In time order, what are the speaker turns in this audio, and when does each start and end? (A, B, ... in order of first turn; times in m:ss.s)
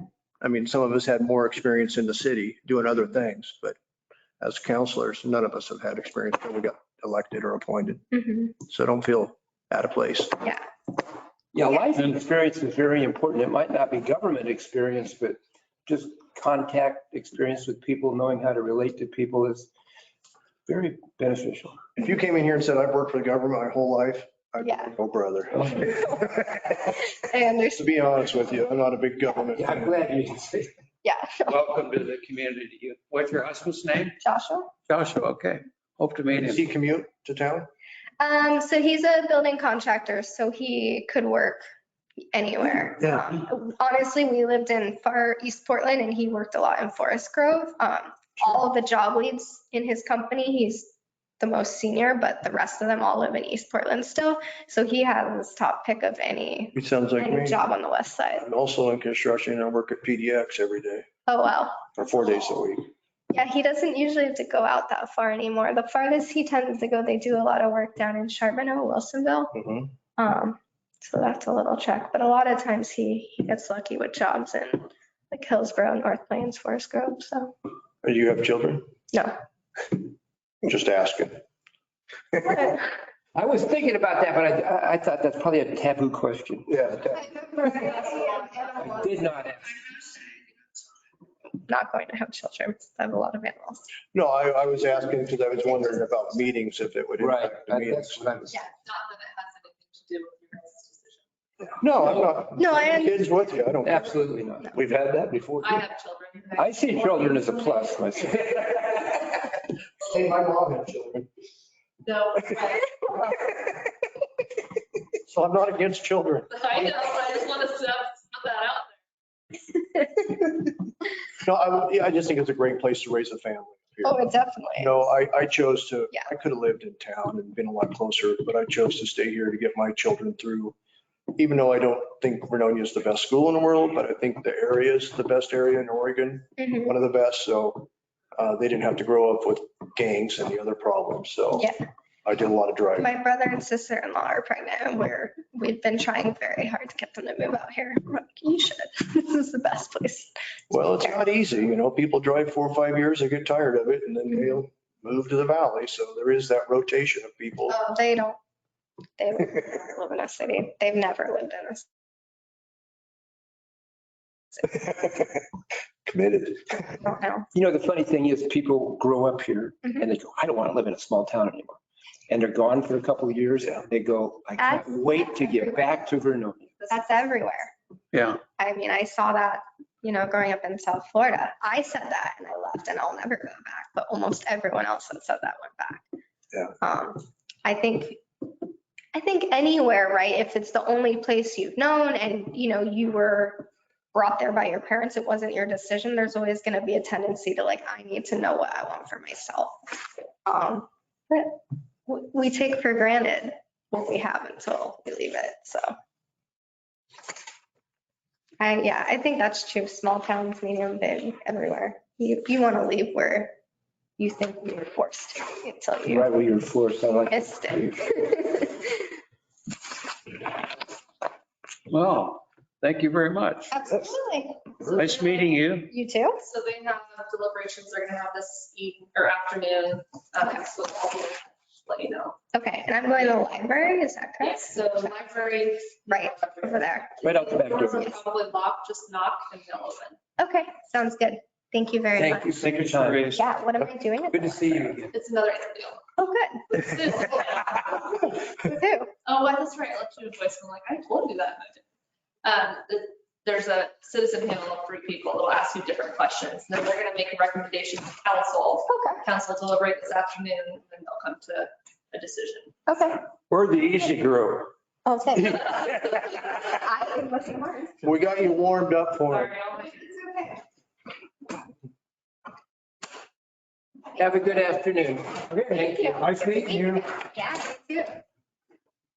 0:00.4-0:03.8 A
0:04.4-0:08.0 A
0:08.1-0:08.6 B
0:08.6-0:10.4 A
0:11.5-0:19.7 C
0:20.7-0:21.8 C
0:22.0-0:25.8 A
0:24.6-0:24.9 B
0:25.6-0:27.8 B
0:27.8-0:30.0 A
0:29.6-0:30.7 C
0:31.0-0:31.6 B
0:31.5-0:34.2 D
0:34.2-0:34.7 B
0:34.9-0:36.6 D
0:36.3-0:37.7 A
0:38.2-0:41.6 B
0:42.3-0:58.4 B
0:56.8-0:57.6 A
0:58.4-1:01.1 A
1:01.3-1:02.0 B
1:02.0-1:02.9 A
1:03.3-1:09.6 B
1:09.6-1:09.9 A
1:10.2-1:17.5 B
1:18.0-1:18.9 A
1:20.6-1:21.4 A
1:23.4-1:27.2 C
1:26.7-1:27.2 A
1:27.2-1:29.1 B
1:27.8-1:28.7 E
1:28.8-1:29.9 C
1:31.6-1:33.9 B
1:34.1-1:38.4 A
1:37.2-1:38.6 C
1:38.8-1:41.8 E
1:41.8-1:45.4 A
1:42.6-1:43.3 B
1:43.8-1:45.7 C
1:45.6-1:48.2 E
1:46.6-1:49.1 C
1:50.0-1:51.3 A
1:52.0-1:53.0 E
1:55.3-1:56.5 A
1:56.5-1:58.9 E
2:01.4-2:04.2 A
2:04.0-2:05.0 B
2:04.8-2:10.8 A
2:11.4-2:21.7 A
2:16.6-2:16.9 B
2:22.2-2:23.1 A
2:23.0-2:30.3 B
2:30.7-2:37.8 A
2:37.7-2:38.4 B
2:39.2-2:41.8 B
2:44.8-2:45.2 A
2:46.1-2:46.9 A
2:46.9-2:47.5 B
2:47.5-2:56.7 C
2:54.6-2:55.9 B
2:56.9-2:57.7 B
2:58.1-2:58.4 D
2:58.5-3:06.0 B
3:06.8-3:08.5 B
3:09.1-3:19.8 B
3:20.5-3:26.0 B
3:28.6-3:33.6 B
3:34.2-3:36.3 B
3:36.0-3:38.1 C
3:37.3-3:39.1 B
3:41.9-3:43.7 D
3:43.7-3:45.0 B
3:44.9-3:45.9 D
3:45.9-3:46.4 B
3:46.4-3:52.4 E
3:52.5-3:54.8 B
3:54.4-4:00.2 E
3:56.1-3:57.1 B
3:57.2-3:58.2 C
4:00.4-4:02.6 B
4:02.2-4:03.4 C
4:02.5-4:03.4 D
4:03.3-4:04.9 B
4:04.3-4:05.1 C
4:05.1-4:06.0 E
4:06.2-4:06.6 B
4:06.7-4:08.4 E
4:08.5-4:09.1 B
4:09.2-4:11.8 E
4:12.4-4:22.8 E
4:18.9-4:19.2 B
4:22.9-4:23.2 B
4:23.5-4:24.7 D
4:25.0-4:28.0 B
4:25.6-4:26.6 D
4:28.0-4:29.5 A
4:29.3-4:30.6 E
4:34.2-4:36.3 C
4:35.9-4:38.2 B
4:36.2-4:37.0 D